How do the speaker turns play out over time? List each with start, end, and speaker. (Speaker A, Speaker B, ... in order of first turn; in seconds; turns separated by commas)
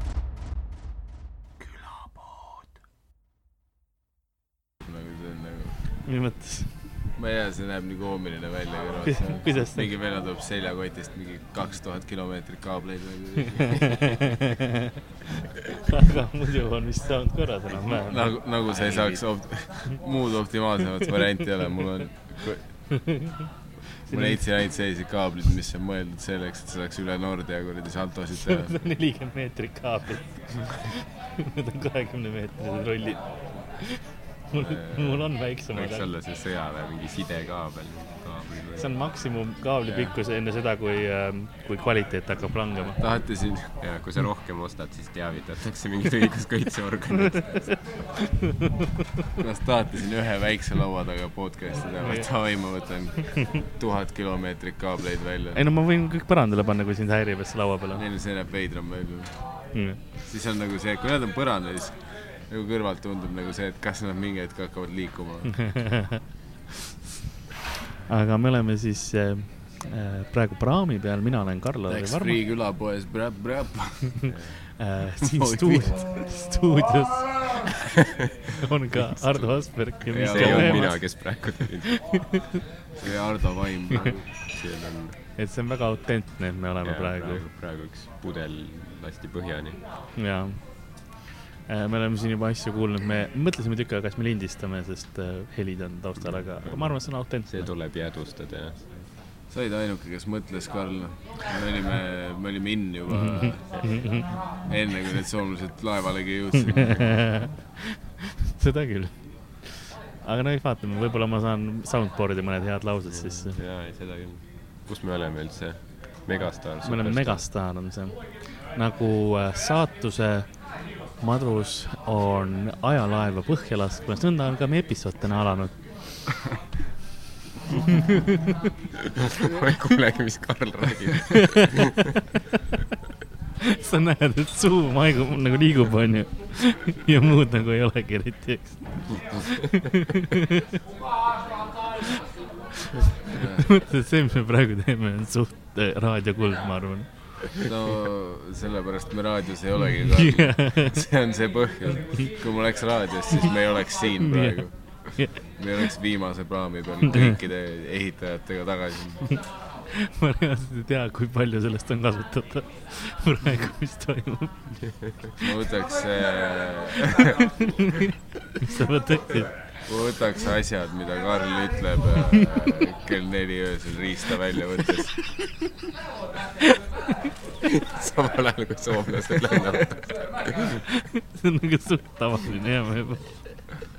Speaker A: 1.6-2.6, Speaker B: 4.8-5.8, Speaker A: 6.0-6.8, Speaker B: 7.2-14.4, Speaker A: 9.1-9.9, Speaker A: 13.6-14.9, Speaker A: 15.5-18.3, Speaker B: 18.0-22.6, Speaker C: 18.7-19.2, Speaker A: 22.9-23.5, Speaker A: 24.1-24.4, Speaker B: 24.1-28.8, Speaker A: 28.4-33.3, Speaker A: 33.8-36.1, Speaker B: 34.6-35.3, Speaker C: 35.7-38.9, Speaker A: 38.8-43.0, Speaker B: 43.0-43.7, Speaker C: 43.8-47.8, Speaker A: 48.2-49.0, Speaker B: 49.4-55.6, Speaker A: 55.5-58.0, Speaker B: 58.0-59.4, Speaker A: 59.7-60.0, Speaker B: 60.2-62.0, Speaker B: 62.5-65.7, Speaker A: 65.5-66.2, Speaker A: 68.1-72.4, Speaker B: 71.9-74.3, Speaker A: 74.2-81.0, Speaker B: 75.2-76.0, Speaker B: 80.1-81.0, Speaker C: 80.2-82.0, Speaker A: 81.8-82.6, Speaker B: 83.0-84.3, Speaker C: 84.5-85.2, Speaker A: 85.4-87.4, Speaker C: 86.8-89.8, Speaker A: 90.2-90.6, Speaker A: 91.7-97.7, Speaker C: 96.6-99.1, Speaker B: 99.5-103.9, Speaker A: 103.1-104.3, Speaker B: 104.7-107.2, Speaker A: 106.7-113.6, Speaker C: 113.1-117.4, Speaker A: 116.8-120.5, Speaker A: 121.2-125.8, Speaker A: 127.9-128.6, Speaker C: 129.1-132.1, Speaker A: 131.3-132.2, Speaker A: 133.6-140.8, Speaker A: 142.8-147.6, Speaker B: 143.3-143.8, Speaker B: 147.5-159.4, Speaker A: 150.1-151.1, Speaker A: 154.3-154.6, Speaker A: 159.3-164.8, Speaker B: 165.4-167.7, Speaker A: 167.6-169.5, Speaker B: 169.8-175.2, Speaker C: 177.6-180.7, Speaker A: 180.6-183.4